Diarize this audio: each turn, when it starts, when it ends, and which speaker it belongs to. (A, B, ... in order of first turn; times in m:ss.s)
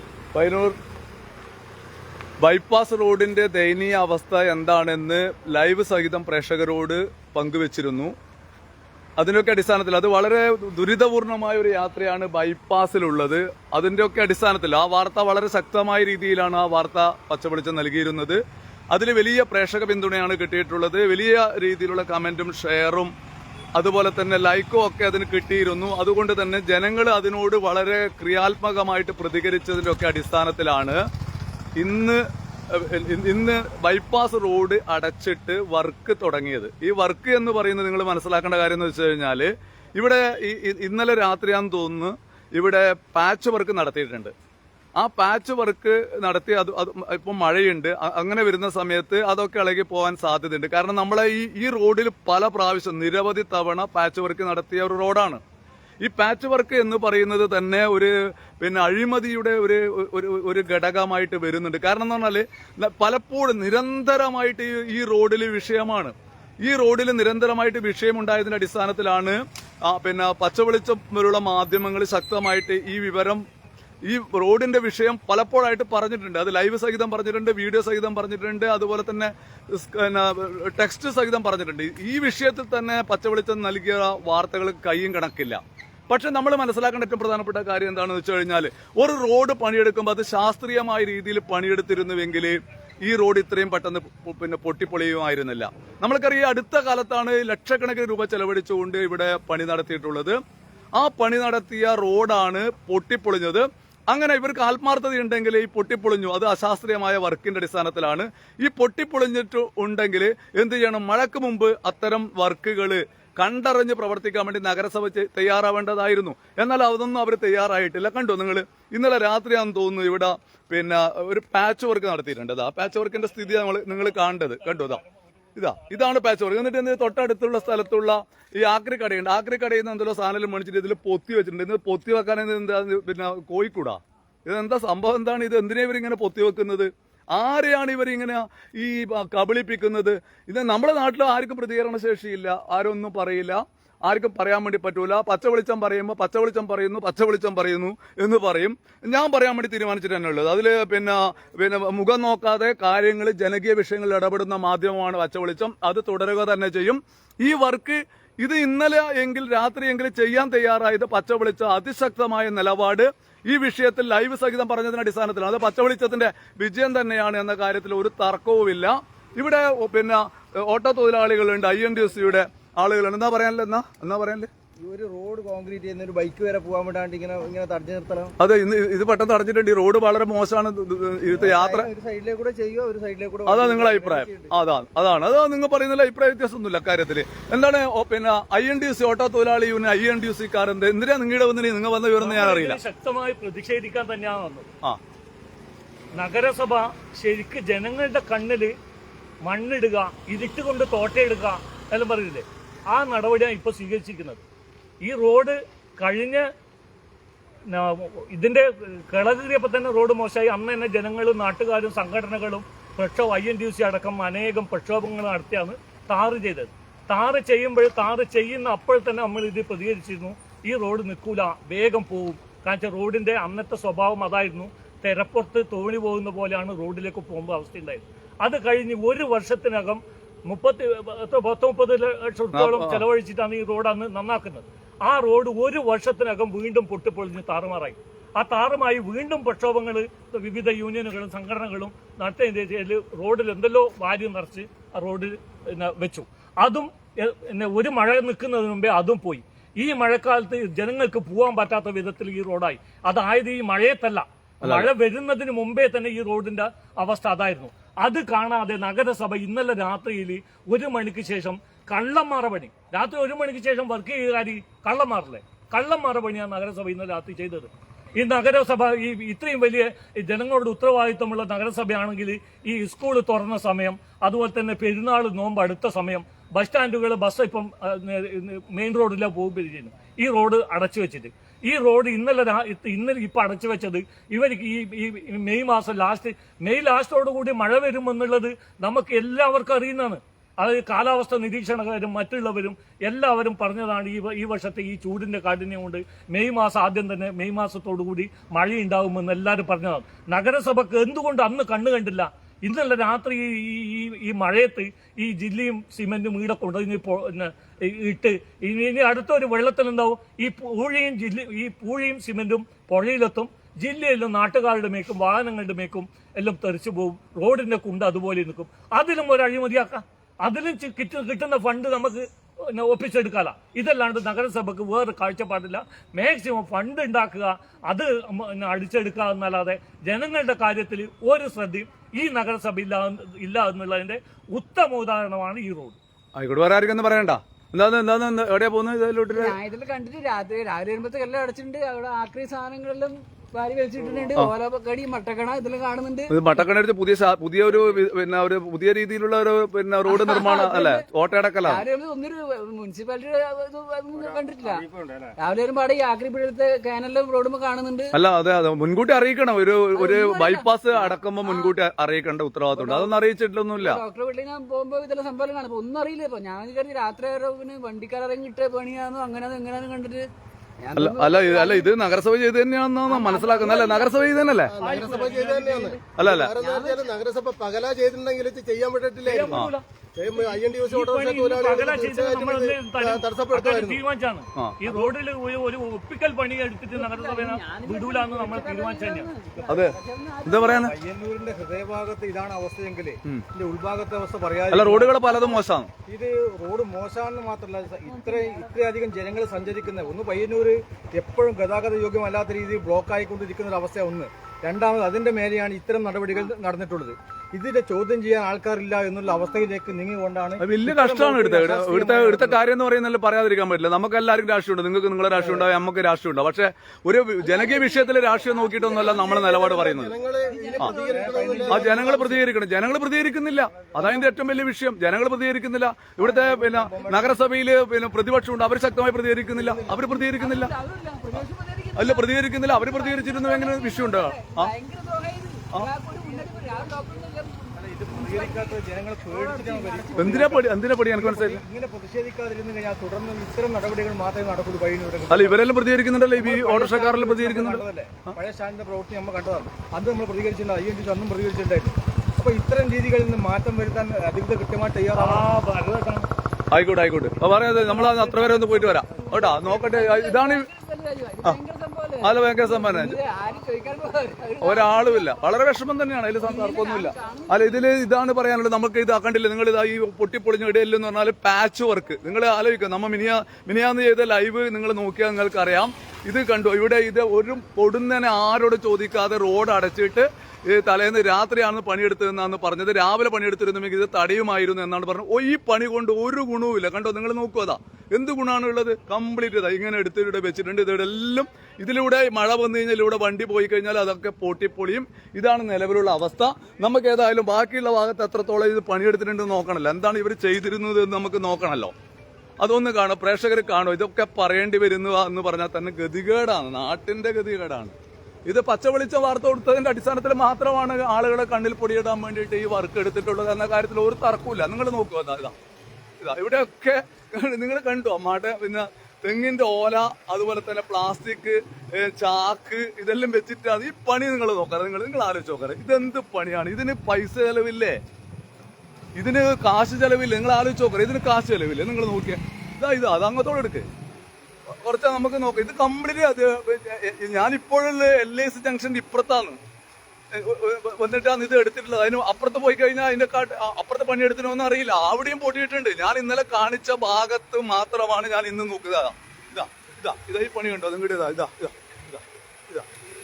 0:00.4-0:00.8 A
0:02.4-0:08.1 A
0:09.2-0:18.4 A
0:18.9-0:23.1 A
0:23.8-0:31.0 A
0:31.8-0:44.3 A
0:45.0-0:55.4 A
0:56.0-1:06.1 A
1:06.6-1:13.4 A
1:14.1-1:40.4 A
1:41.0-2:05.0 A
2:05.6-2:54.5 A
2:54.8-2:58.4 B
2:58.4-3:01.9 A
3:01.3-3:04.5 B
3:03.5-3:12.8 A
3:12.2-3:14.7 C
3:16.2-3:18.7 C
3:19.5-3:24.4 C
3:25.0-3:26.4 C
3:27.7-5:36.0 C
3:52.5-3:53.0 A
4:14.6-4:14.9 A
5:36.4-5:39.6 A
5:39.3-5:46.6 D
5:46.3-5:51.8 A
5:50.0-5:51.0 D
5:51.6-5:54.9 D
5:54.2-5:55.3 B
5:55.4-5:58.2 D
5:58.1-6:04.0 A
6:00.0-6:01.7 D
6:02.7-6:03.1 D
6:03.8-6:10.3 D
6:10.8-6:11.9 D
6:11.0-6:14.8 A
6:13.1-6:14.3 D
6:14.6-6:24.0 E
6:14.8-6:15.9 C
6:14.9-6:16.0 D
6:16.2-6:16.6 A
6:16.6-6:17.1 D
6:19.2-6:29.3 C
6:26.9-6:30.9 D
6:29.6-6:29.8 B
6:29.7-6:30.9 A
6:30.8-6:35.3 B
6:34.7-6:35.9 A
6:35.3-6:35.6 D
6:36.1-6:52.6 B
6:38.1-6:38.7 D
6:50.6-7:00.2 A
6:55.3-6:55.7 B
6:57.4-6:59.3 D
6:59.2-7:02.2 E
7:00.5-7:01.6 D
7:00.8-7:02.5 B
7:01.7-7:10.7 A
7:03.8-7:04.2 B
7:06.2-7:07.5 B
7:06.9-7:07.5 D
7:09.5-7:10.1 B
7:09.9-7:20.7 D
7:12.0-7:14.7 A
7:17.8-7:25.6 B
7:20.2-7:21.6 A
7:25.3-7:28.4 A
7:26.4-7:35.5 B
7:35.2-7:36.3 C
7:36.7-7:40.7 A
7:37.7-7:39.0 C
7:39.2-7:45.3 D
7:42.2-7:43.2 A
7:44.6-8:21.9 A
7:46.4-7:47.9 D
8:22.6-8:28.0 A
8:28.5-8:35.6 A
8:36.2-8:48.0 A
8:49.2-8:53.9 A
8:54.7-8:59.6 A
9:00.3-9:12.9 A